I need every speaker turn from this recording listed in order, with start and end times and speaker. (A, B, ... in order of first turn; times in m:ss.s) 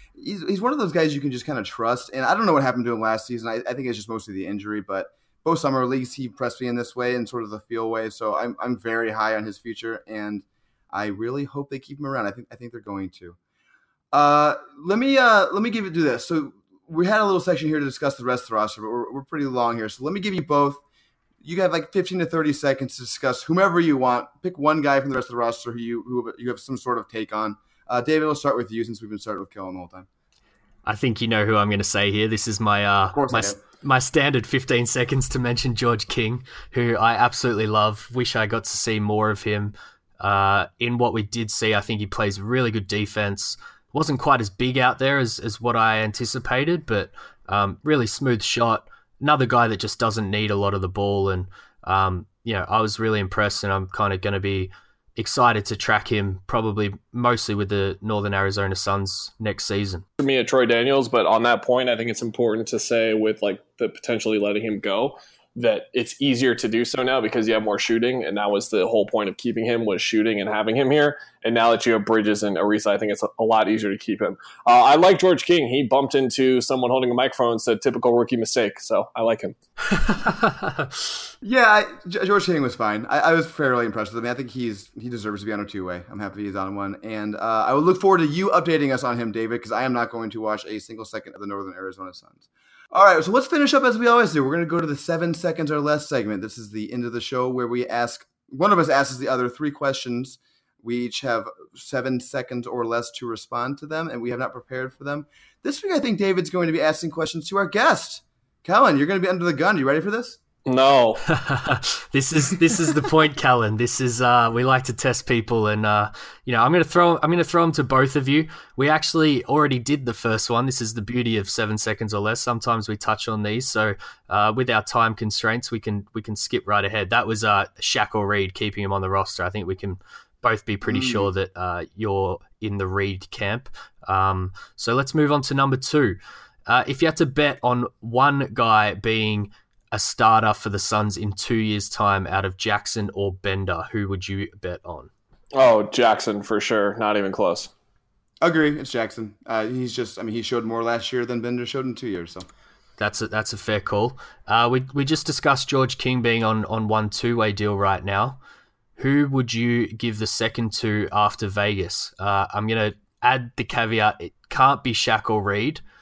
0:00.2-0:13.4 A
0:14.1-0:20.8 A
0:21.4-0:30.1 A
0:30.9-1:00.0 B
0:33.1-0:33.6 A
1:00.2-1:19.6 C
1:20.0-1:20.8 B
1:21.4-1:50.4 A
1:50.7-1:51.2 C
1:51.3-2:25.1 B
2:10.9-2:11.3 A
2:25.5-2:27.7 C
2:28.4-2:32.5 A
2:33.0-2:38.4 B
2:39.0-2:45.8 B